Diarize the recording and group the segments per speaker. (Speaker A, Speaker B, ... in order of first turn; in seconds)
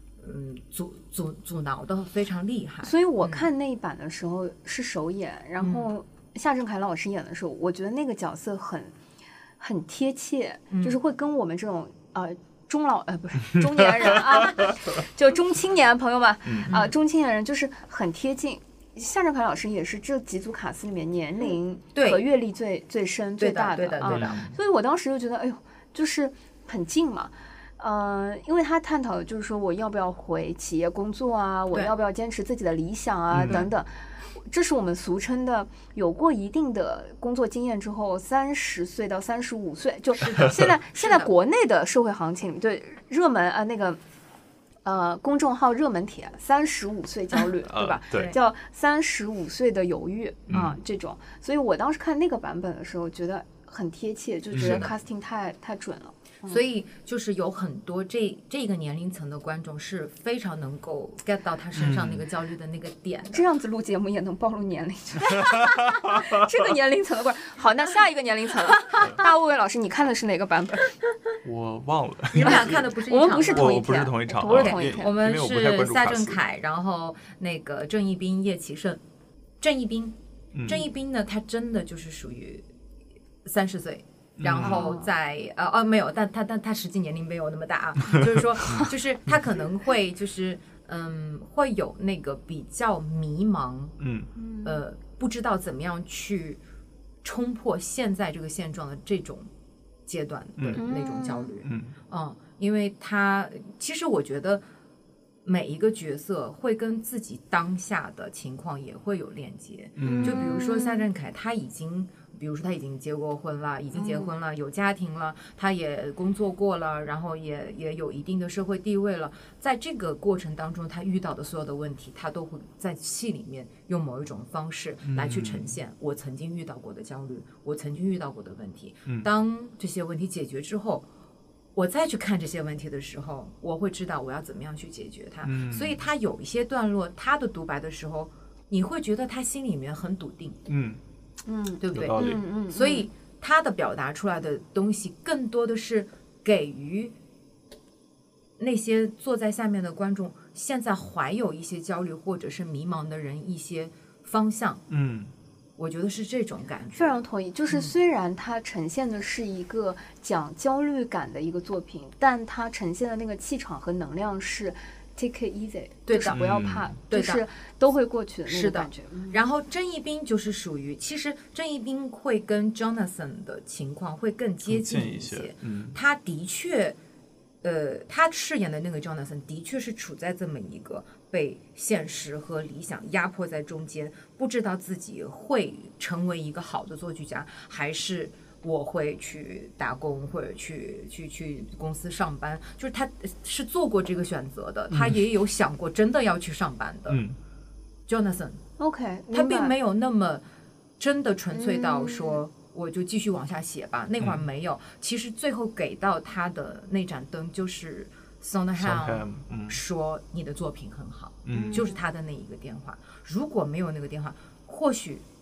Speaker A: 0.2-3.5, 5.6-5.9, 10.7-11.0, 16.7-16.9, 21.9-22.2, 23.4-24.5, 33.4-33.7, 40.2-41.3, 48.1-48.4, 54.5-54.9, 56.5-63.4, 72.3-73.9, 74.5-79.0, 79.6-82.7, 83.4-94.0, 94.6-96.6, 97.2-99.5, 100.0-104.6, 105.4-131.1, 131.7-140.6, 141.8-147.1, 148.6-154.8, 155.8-157.2, 166.1-167.4, 168.5-177.0, 177.6-197.2, 198.1-198.6, 199.3-200.4, 201.0-215.2
Speaker B: 2.8-8.9, 9.6-44.0, 44.8-56.6, 63.3-70.9, 72.3-75.1, 84.6-85.1, 94.3-94.8, 100.8-101.5, 110.0-111.0, 113.9-114.3, 141.4-143.1, 156.9-169.4, 198.8-199.7, 201.5-202.4, 211.5-212.0
Speaker C: 16.4-16.7, 24.0-24.5, 33.3-33.7, 47.6-48.3, 50.5-50.8, 54.5-54.9, 61.7-62.2, 71.4-72.8, 73.5-76.4, 80.5-80.8, 84.4-84.9, 94.0-94.3, 100.6-100.8, 101.6-101.9, 110.0-110.5, 125.0-125.7, 135.4-136.0, 140.7-141.0, 141.9-142.4, 154.9-155.3, 166.3-166.9, 174.7-176.0, 194.9-195.2, 197.1-197.4, 208.8-209.8, 211.4-211.9